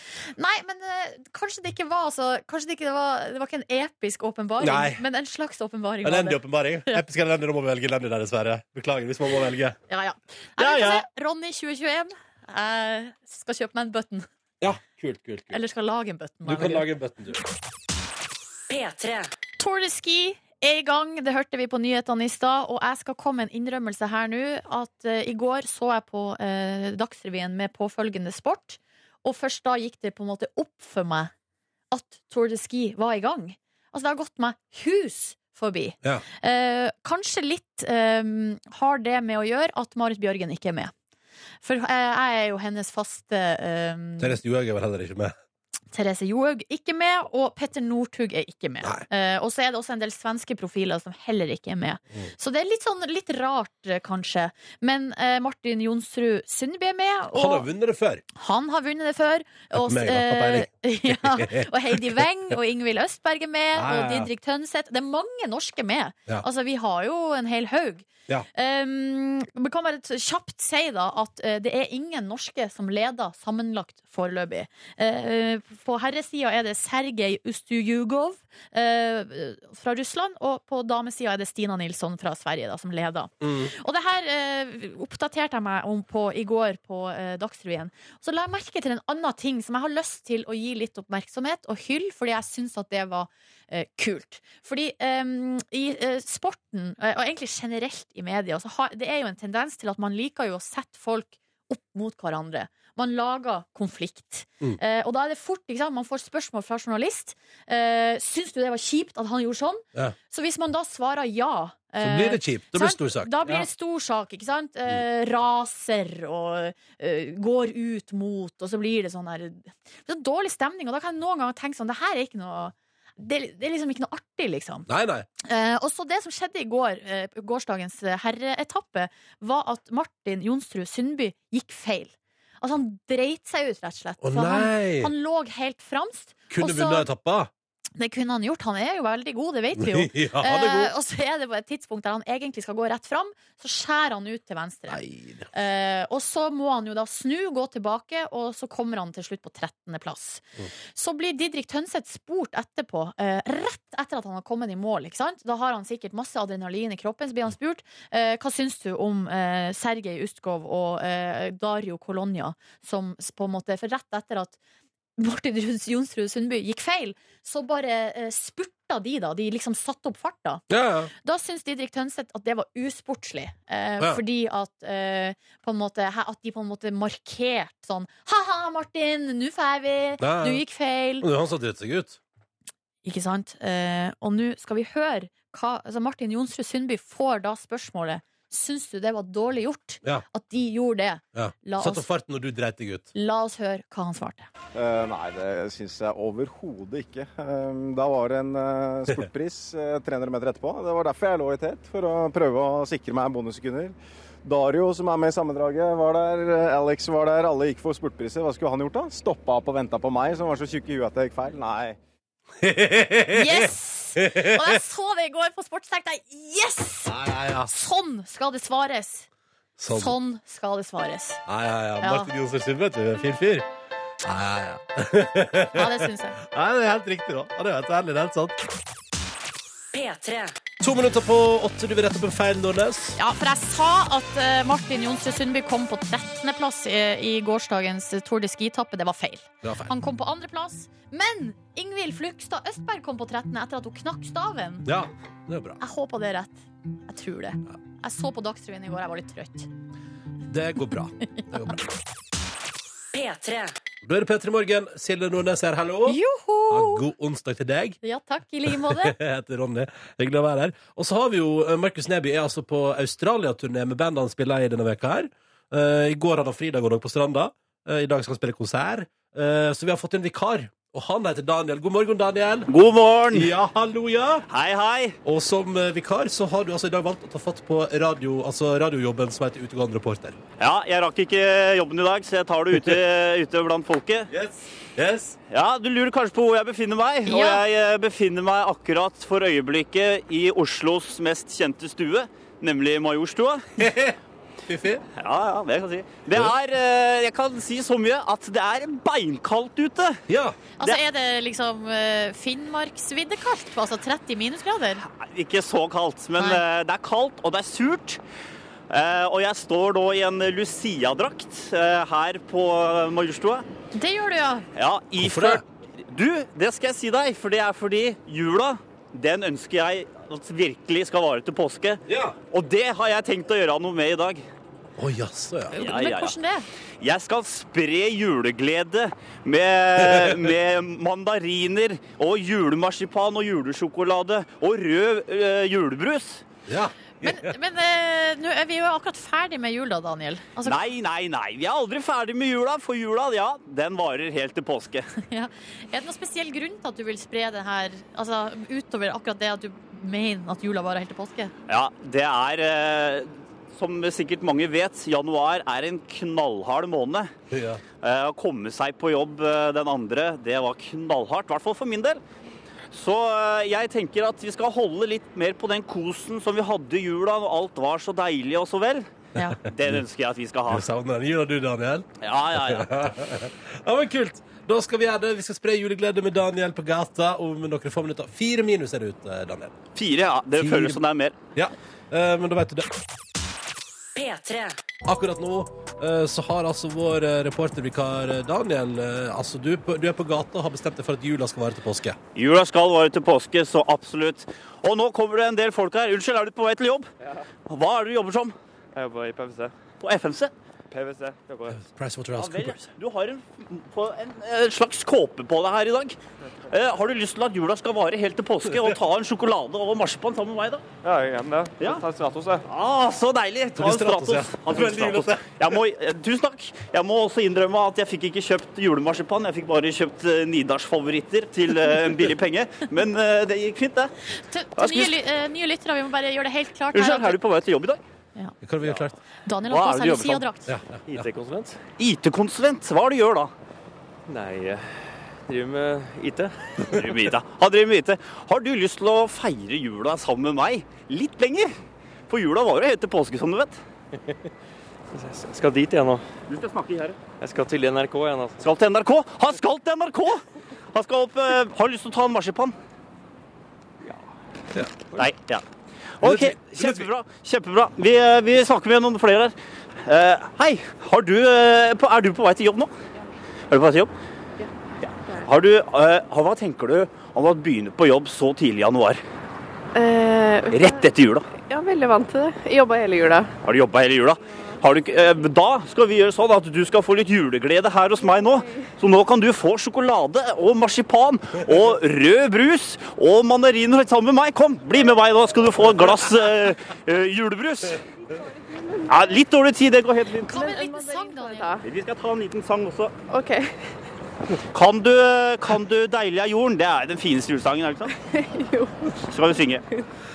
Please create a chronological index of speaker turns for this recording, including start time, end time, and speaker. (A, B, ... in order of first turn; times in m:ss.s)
0:00.2-0:07.0 A
0:04.6-0:05.0 B
0:06.0-0:09.8 B
0:09.9-0:14.3 A
0:10.6-0:11.0 B
0:14.6-0:15.6 B
0:15.5-0:16.9 A
0:16.4-0:17.4 B
0:18.7-0:19.3 C
0:19.6-0:31.3 A
0:31.9-0:40.9 A
0:41.6-0:44.4 A
0:44.2-0:45.3 B
0:45.9-0:57.6 A
0:57.3-0:58.2 B
0:58.3-2:04.9 A
0:59.7-1:02.2 B
1:03.7-1:04.3 B
1:23.4-1:23.7 B
1:52.0-1:53.7 B
2:04.9-2:05.3 B
2:05.4-2:17.1 A
2:14.2-2:15.1 B
2:16.5-2:17.5 B
2:18.0-2:25.0 A
2:19.7-2:20.9 B
2:24.9-2:25.5 B
2:25.5-2:30.4 A
2:30.9-2:44.6 A
2:45.2-2:50.6 A
2:50.7-2:51.1 B
2:51.2-3:01.3 A
3:00.2-3:00.6 B
3:01.2-3:02.2 B
3:03.0-3:12.1 A
3:11.3-3:13.1 B
3:13.1-3:14.5 A
3:14.7-3:32.0 D
3:32.6-3:34.8 B
3:33.3-3:37.1 A
3:37.1-3:37.7 B
3:37.6-3:39.3 A
3:39.8-3:40.2 B
3:39.9-3:41.4 A
3:41.5-3:43.7 B
3:42.0-3:42.3 A
3:44.2-3:48.6 B
3:45.7-3:46.4 A
3:49.9-3:50.5 C
3:50.8-3:53.2 B
3:53.2-4:04.9 A
3:59.6-3:59.9 B
4:04.8-4:05.8 B
4:05.8-4:09.7 A
4:10.5-4:11.8 B
4:13.1-4:13.7 C
4:14.0-4:18.0 B
4:16.0-4:17.0 A
4:18.0-4:19.1 A
4:18.7-4:32.7 B
4:32.7-4:33.5 E
4:33.3-4:34.4 B
4:34.5-4:35.2 E
4:35.2-4:40.4 B
4:40.6-4:44.3 E
4:44.3-4:45.4 B
4:45.5-4:53.6 E
4:47.2-4:47.6 A
4:53.8-4:55.0 B
4:55.2-5:00.2 E
5:00.3-5:00.6 B
5:00.8-5:05.0 A
5:05.1-5:08.2 E
5:06.4-5:06.6 A
5:08.9-5:13.6 E
5:13.9-5:14.7 A
5:14.8-5:24.4 E
5:15.2-5:15.6 B
5:22.1-5:22.4 B
5:25.0-5:25.7 B
5:25.7-5:26.6 A
5:25.8-5:26.3 E
5:27.0-5:36.4 E
5:30.0-5:30.4 B
5:36.7-5:37.5 B
5:37.2-5:40.8 A
5:40.6-5:45.1 E
5:45.3-5:51.5 A
5:51.7-5:57.3 E
5:57.5-5:57.8 B
5:58.0-6:02.2 E
6:02.9-6:09.1 E
6:09.6-6:10.8 E
6:10.7-6:19.8 B
6:12.2-6:12.9 E
6:19.9-6:21.4 E
6:20.6-6:21.0 B
6:21.5-6:22.9 B
6:24.1-6:24.8 C
6:25.0-6:32.2 B
6:32.3-6:37.1 E
6:37.7-6:38.5 E
6:38.9-6:39.7 F
6:40.0-6:40.5 E
6:40.9-6:41.8 F
6:41.7-6:42.9 B
6:42.3-6:46.2 E
6:46.7-6:50.8 E
6:51.0-6:52.6 F
6:51.8-6:52.0 E
6:52.7-7:04.1 E
6:53.8-6:55.7 B
7:04.5-7:07.4 A
7:04.8-7:05.1 E
7:06.9-7:08.0 E
7:08.6-7:09.2 B
7:09.4-7:10.7 A
7:09.7-7:10.4 E
7:10.7-7:11.0 B
7:11.1-7:11.8 F
7:12.0-7:13.5 E
7:14.3-7:16.8 F
7:16.8-7:21.7 E
7:22.3-7:23.8 E
7:25.1-7:26.2 F
7:26.5-7:27.2 E
7:27.4-7:28.6 F
7:28.6-7:32.8 E
7:35.2-7:35.6 E
7:36.2-7:39.5 E
7:36.2-7:37.1 B
7:40.0-7:42.9 E
7:43.7-7:44.1 E
7:45.0-7:49.2 E
7:49.9-7:51.0 G
7:50.7-7:51.4 E
7:51.5-7:53.5 G
7:53.6-8:08.0 E
7:54.5-7:54.9 G
7:58.3-7:58.9 G
8:08.3-8:09.0 G
8:09.0-8:10.6 E
8:10.5-8:11.8 A
8:10.5-8:11.8 G
8:11.8-8:13.1 E
8:13.3-8:13.7 G
8:14.7-8:18.1 E
8:18.2-8:19.2 G
8:19.3-8:19.8 E